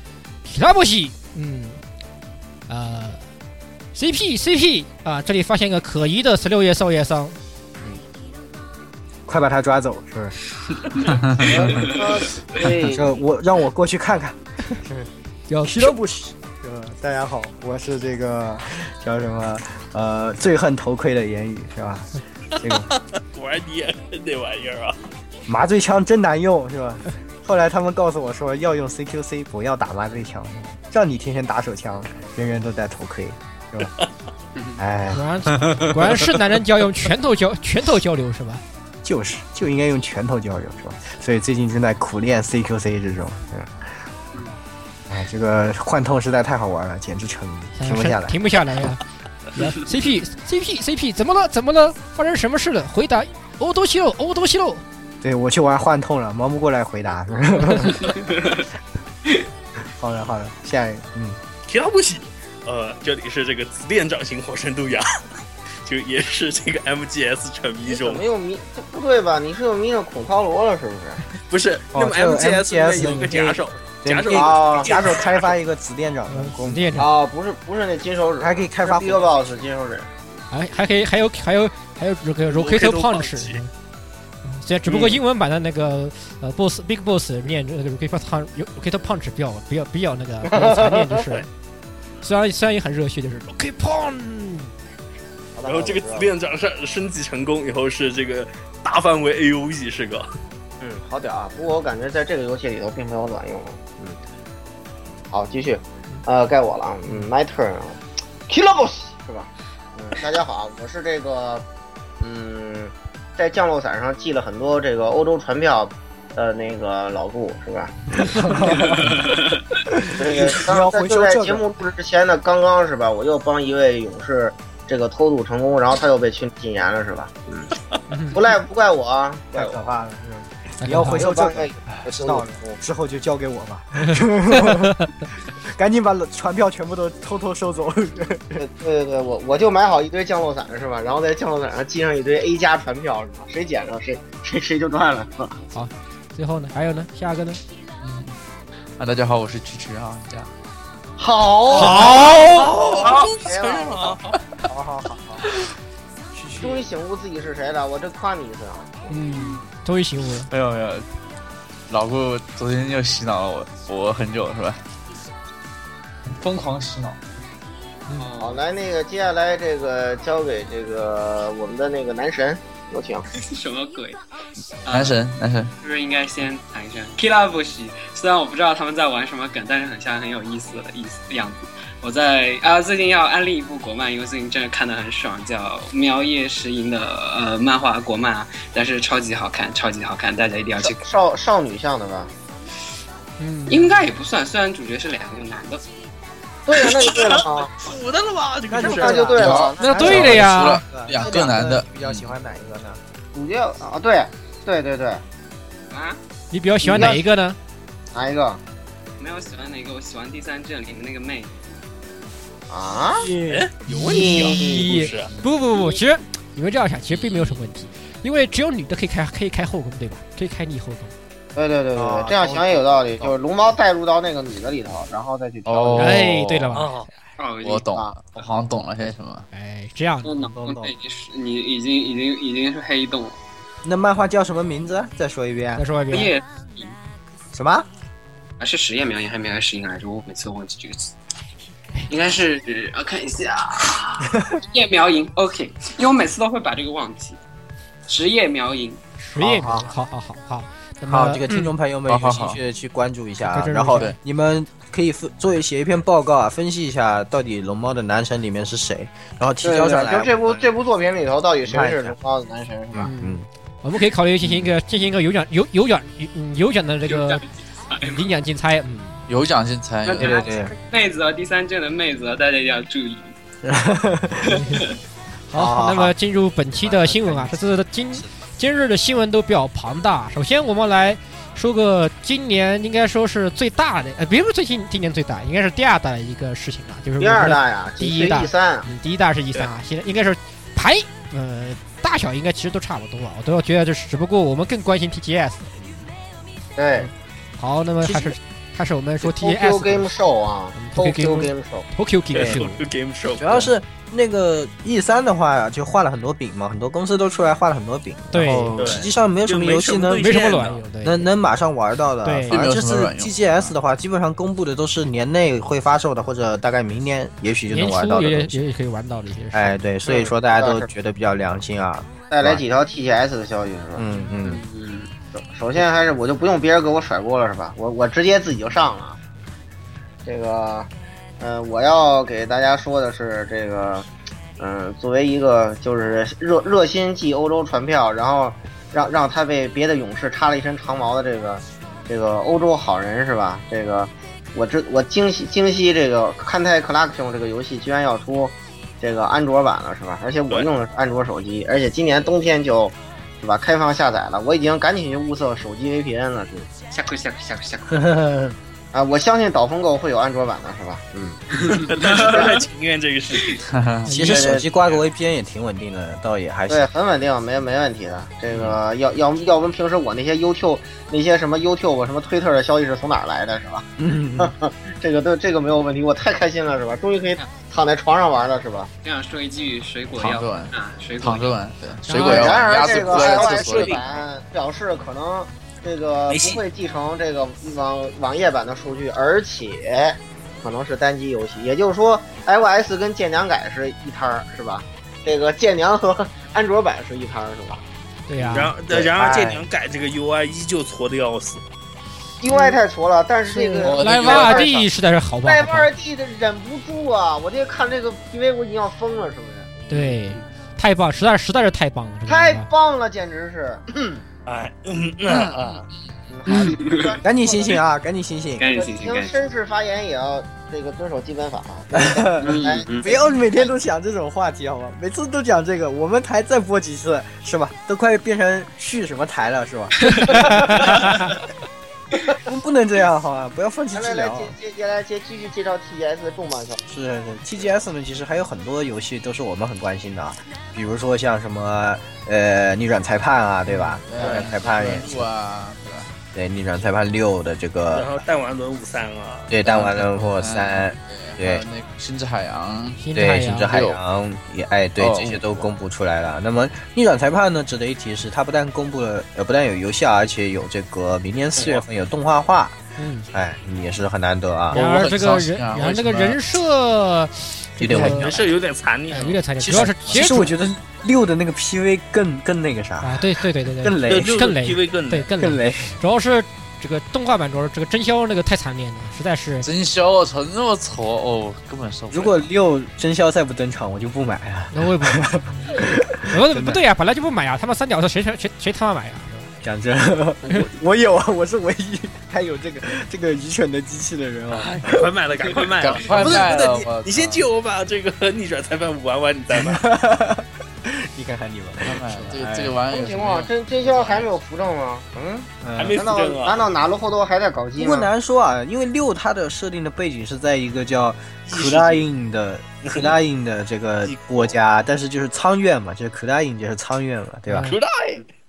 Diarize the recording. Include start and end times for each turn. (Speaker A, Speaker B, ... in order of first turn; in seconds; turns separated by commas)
Speaker A: 0.5-1.8, Speaker A: 2.7-3.2, Speaker A: 4.0-7.4, Speaker B: 9.3-10.3, Speaker C: 11.2-11.5, Speaker D: 11.3-13.2, Speaker B: 11.4-11.9, Speaker B: 12.8-15.1, Speaker A: 15.5-15.9, Speaker B: 15.6-22.9, Speaker E: 22.6-25.1, Speaker B: 25.5-33.9, Speaker B: 34.8-36.2, Speaker A: 35.1-38.6, Speaker B: 39.0-43.8, Speaker B: 45.1-48.4, Speaker A: 47.8-49.0, Speaker A: 49.5-54.8, Speaker B: 55.2-58.3, Speaker F: 58.2-58.6, Speaker B: 59.9-61.4, Speaker E: 61.7-65.1, Speaker E: 65.8-68.2, Speaker D: 67.8-71.2, Speaker E: 71.5-75.5, Speaker B: 71.9-77.0, Speaker A: 73.0-73.3, Speaker D: 74.3-75.2, Speaker A: 76.3-77.1, Speaker D: 77.0-80.1, Speaker B: 78.4-79.3, Speaker A: 80.5-83.7, Speaker E: 82.5-83.6, Speaker A: 84.5-91.5, Speaker D: 90.5-91.2, Speaker A: 92.2-94.7, Speaker D: 95.6-96.3, Speaker E: 95.6-100.3, Speaker D: 100.8-104.2, Speaker D: 105.3-111.7, Speaker D: 112.2-118.7, Speaker B: 118.2-119.2, Speaker F: 119.0-119.4, Speaker B: 120.1-121.6, Speaker D: 120.1-127.7, Speaker A: 128.1-128.4, Speaker D: 128.3-129.8, Speaker B: 129.5-138.7, Speaker A: 130.8-131.2, Speaker D: 131.1-132.8, Speaker A: 134.0-134.8, Speaker D: 138.6-145.6, Speaker A: 145.7-147.6, Speaker C: 148.0-148.3, Speaker C: 149.0-150.5, Speaker D: 151.2-154.2, Speaker A: 151.7-152.7, Speaker E: 151.9-154.4, Speaker B: 154.7-155.5, Speaker C: 156.4-156.8, Speaker D: 156.6-159.2, Speaker A: 159.1-160.5, Speaker F: 159.3-159.6, Speaker C: 160.5-161.1, Speaker C: 161.9-164.8, Speaker C: 166.3-167.2, Speaker F: 168.1-168.6, Speaker D: 168.4-173.3, Speaker F: 173.4-174.2, Speaker F: 174.9-175.2, Speaker C: 174.9-175.7, Speaker F: 175.8-191.1, Speaker D: 190.8-192.3, Speaker A: 193.4-193.9, Speaker F: 193.7-195.8, Speaker D: 196.7-197.7, Speaker E: 196.8-199.3, Speaker B: 198.7-203.0, Speaker D: 198.8-200.2, Speaker C: 199.3-202.3, Speaker A: 199.8-200.8, Speaker D: 203.3-205.2, Speaker F: 205.9-206.2, Speaker A: 206.5-207.6, Speaker D: 206.8-207.2, Speaker D: 208.1-208.6, Speaker F: 209.2-211.8, Speaker D: 212.7-213.3, Speaker A: 213.2-221.1, Speaker E: 213.4-215.3, Speaker D: 214.1-214.9, Speaker D: 221.6-226.2, Speaker B: 222.0-223.3, Speaker C: 225.7-226.9, Speaker A: 226.0-227.1, Speaker E: 226.7-227.1, Speaker F: 227.4-228.2, Speaker C: 227.6-229.5, Speaker A: 229.5-230.5, Speaker F: 230.2-233.4, Speaker B: 230.5-230.9, Speaker B: 233.8-235.8, Speaker A: 235.8-236.3, Speaker F: 236.1-237.0, Speaker B: 237.5-237.9, Speaker F: 238.6-241.1, Speaker F: 242.1-247.4, Speaker B: 244.3-244.6, Speaker F: 248.1-249.0, Speaker A: 249.2-251.7, Speaker B: 249.4-249.9, Speaker B: 251.1-260.7, Speaker C: 252.1-252.6, Speaker A: 253.5-254.1, Speaker D: 259.6-263.1, Speaker B: 261.7-262.2, Speaker B: 262.9-263.5, Speaker A: 263.1-267.4, Speaker F: 267.1-268.2, Speaker A: 268.0-269.2, Speaker C: 269.3-270.3, Speaker F: 270.1-273.3, Speaker B: 270.2-270.7, Speaker B: 273.6-274.6, Speaker A: 274.5-274.8, Speaker F: 274.6-275.0, Speaker A: 275.5-295.7, Speaker B: 275.5-276.1, Speaker B: 276.8-277.6, Speaker D: 287.2-288.9, Speaker D: 296.8-297.1, Speaker A: 297.0-300.1, Speaker B: 298.0-298.4, Speaker D: 299.2-301.9, Speaker A: 300.8-302.8, Speaker E: 302.3-303.7, Speaker B: 302.4-302.6, Speaker B: 303.4-310.3, Speaker A: 308.3-308.8, Speaker E: 308.8-310.9, Speaker A: 310.2-311.3, Speaker B: 311.0-318.6, Speaker A: 312.2-312.6, Speaker C: 312.5-313.7, Speaker A: 317.7-319.8, Speaker B: 319.5-322.6, Speaker D: 320.1-320.9, Speaker D: 322.3-324.1, Speaker B: 324.0-324.6, Speaker F: 324.4-325.1, Speaker D: 325.4-329.2, Speaker D: 330.2-334.1, Speaker D: 334.6-356.7, Speaker F: 356.9-358.0, Speaker B: 357.9-358.6, Speaker D: 358.9-361.4, Speaker E: 361.8-363.6, Speaker C: 363.7-364.1, Speaker A: 364.1-364.5, Speaker B: 364.1-366.9, Speaker D: 364.2-364.7, Speaker D: 366.7-373.9, Speaker B: 374.0-374.5, Speaker D: 374.4-378.9, Speaker F: 379.0-381.6, Speaker C: 380.2-384.0, Speaker A: 382.1-382.6, Speaker D: 382.2-397.8, Speaker E: 382.4-384.1, Speaker E: 386.3-386.6, Speaker A: 398.3-398.7, Speaker B: 398.4-399.6, Speaker E: 398.5-401.6, Speaker D: 402.4-404.9, Speaker A: 403.5-405.9, Speaker C: 403.8-404.7, Speaker D: 405.4-410.2, Speaker A: 409.9-412.7, Speaker D: 412.3-414.2, Speaker E: 414.5-415.6, Speaker D: 415.5-417.8, Speaker F: 416.5-417.2, Speaker B: 417.2-418.7, Speaker F: 418.6-419.4, Speaker D: 418.8-423.7, Speaker B: 421.9-431.2, Speaker F: 422.4-423.1, Speaker A: 430.1-431.3, Speaker B: 432.3-434.6, Speaker D: 433.9-436.8, Speaker B: 436.9-445.3, Speaker A: 443.7-444.0, Speaker C: 444.0-446.1, Speaker D: 444.2-444.5, Speaker B: 446.3-448.2, Speaker E: 447.9-449.5, Speaker B: 449.5-451.6, Speaker C: 449.6-453.0, Speaker A: 453.0-453.7, Speaker B: 453.1-462.8, Speaker C: 453.6-454.0, Speaker C: 455.0-455.6, Speaker E: 461.6-461.8, Speaker A: 463.0-463.3, Speaker B: 463.3-464.8, Speaker C: 464.7-466.4, Speaker A: 464.7-468.3, Speaker B: 467.8-468.4, Speaker C: 467.9-468.5, Speaker E: 468.1-469.4, Speaker A: 469.1-470.5, Speaker B: 469.6-474.3, Speaker C: 469.7-470.2, Speaker A: 473.0-479.7, Speaker E: 474.1-475.3, Speaker B: 475.4-475.9, Speaker C: 479.6-482.4, Speaker B: 482.1-486.8, Speaker A: 484.7-489.5, Speaker B: 489.6-495.1, Speaker E: 494.5-499.8, Speaker C: 495.8-497.4, Speaker B: 499.5-502.8, Speaker C: 501.8-504.3, Speaker D: 502.9-508.1, Speaker B: 505.6-506.1, Speaker E: 505.8-506.7, Speaker B: 507.8-517.7, Speaker E: 511.5-512.1, Speaker E: 514.0-514.5, Speaker A: 517.5-517.8, Speaker E: 517.7-518.3